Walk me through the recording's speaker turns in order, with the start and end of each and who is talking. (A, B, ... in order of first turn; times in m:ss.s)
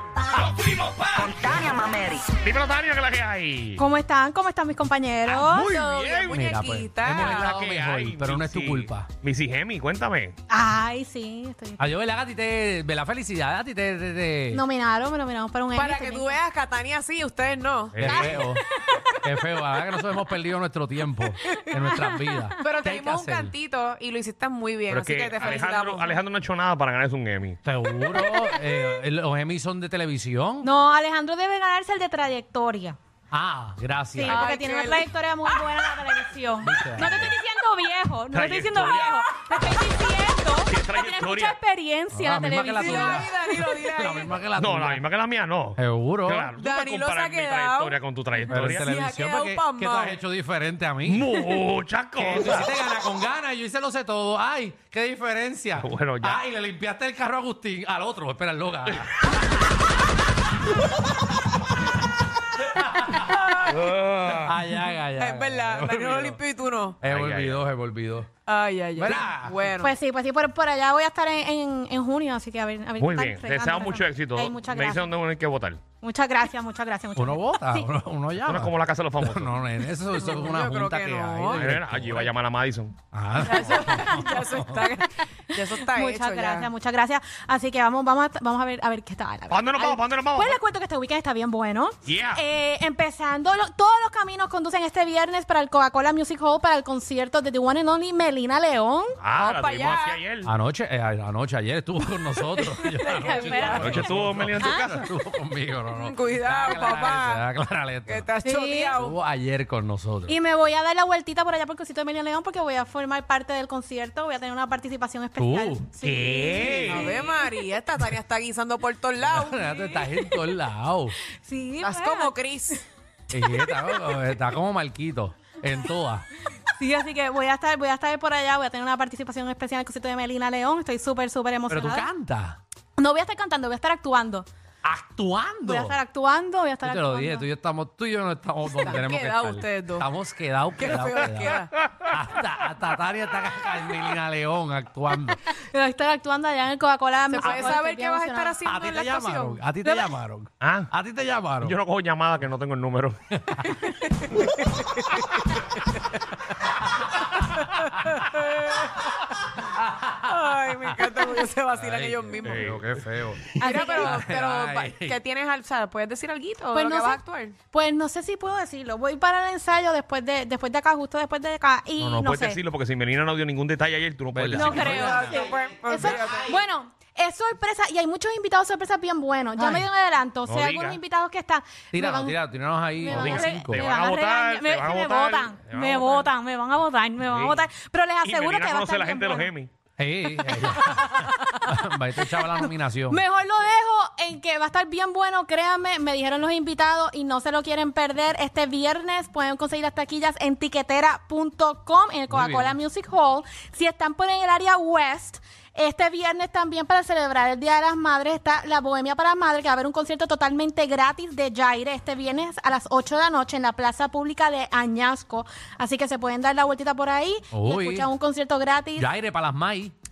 0:00.3-0:02.3 A
0:02.3-0:03.8 B
0:03.8-0:05.8 C
0:05.3-0:06.4 B
0:05.5-0:07.6 D
0:06.3-0:09.1 E
0:07.1-0:10.4 B
0:10.5-0:11.8 C
0:11.8-0:14.6 E
0:14.5-0:16.4 C
0:15.7-0:18.5 D
0:17.9-0:18.2 B
0:18.0-0:18.6 E
0:18.0-0:19.2 C
0:19.2-0:23.5 E
0:21.9-0:22.5 C
0:22.6-0:26.2 D
0:24.9-0:27.6 B
0:27.6-0:30.7 E
0:30.6-0:33.0 C
0:33.3-0:34.4 E
0:34.1-0:43.3 C
0:34.2-0:35.1 D
0:36.6-0:37.4 E
0:38.3-0:39.2 B
0:39.6-0:40.0 E
0:40.7-0:41.6 B
0:42.1-0:45.0 E
0:42.7-0:44.4 D
0:44.5-0:48.9 B
0:45.8-0:46.5 E
0:46.5-0:50.2 D
0:48.5-0:51.6 E
0:51.0-0:52.7 B
0:52.2-0:59.4 E
0:55.8-0:56.4 B
1:02.7-1:03.2 E
1:03.6-1:04.6 B
1:04.3-1:06.4 E
1:05.1-1:07.0 D
1:07.0-1:08.3 E
1:07.0-1:07.6 B
1:08.4-1:09.9 D
1:09.0-1:09.6 E
1:09.8-1:15.1 C
1:13.0-1:15.8 B
1:16.0-1:17.9 C
1:17.2-1:22.3 E
1:18.4-1:19.5 B
1:20.1-1:21.7 D
1:21.5-1:23.0 B
1:23.1-1:24.9 E
1:23.4-1:26.7 D
1:25.5-1:39.2 C
1:29.5-1:30.6 B
1:32.0-1:32.4 B
1:39.2-1:40.5 B
1:39.3-1:40.2 D
1:40.4-1:48.3 E
1:42.8-1:44.1 D
1:43.2-1:44.9 C
1:43.7-1:45.0 B
1:45.9-1:47.4 D
1:48.0-1:49.2 D
1:48.4-1:49.0 C
1:48.9-1:50.4 E
1:50.2-1:57.3 C
1:55.4-1:57.0 E
1:56.0-1:57.2 B
1:56.8-2:00.1 D
1:59.2-2:01.2 E
2:01.4-2:02.3 C
2:01.8-2:02.8 D
2:03.3-2:06.2 E
2:06.6-2:12.1 C
2:11.7-2:12.6 E
2:13.0-2:14.5 C
2:14.8-2:16.0 E
2:15.6-2:17.5 C
2:16.8-2:25.4 E
2:18.7-2:20.1 D
2:20.8-2:21.7 D
2:25.5-2:28.6 C
2:27.3-2:30.1 D
2:27.4-2:27.7 E
2:28.6-2:31.8 E
2:30.6-2:30.9 B
2:31.6-2:33.2 B
2:33.3-2:33.6 E
2:33.6-2:35.9 D
2:37.4-2:39.0 D
2:39.6-2:41.1 E
2:40.2-2:42.8 D
2:41.7-2:45.2 E
2:42.4-2:42.8 B
2:43.6-2:47.6 D
2:43.6-2:44.2 C
2:46.7-2:47.2 C
2:47.7-2:52.6 C
2:52.0-2:55.2 B
2:54.3-2:56.5 E
2:54.5-3:02.4 C
2:54.8-2:56.6 D
2:59.6-2:59.8 E
3:00.4-3:01.0 B
3:01.9-3:03.9 E
3:03.0-3:09.5 C
3:03.1-3:06.3 B
3:07.3-3:07.6 B
3:08.2-3:09.7 B
3:10.0-3:13.2 E
3:10.4-3:39.1 C
3:22.3-3:22.8 E
3:37.5-3:38.1 E
3:39.0-3:39.9 E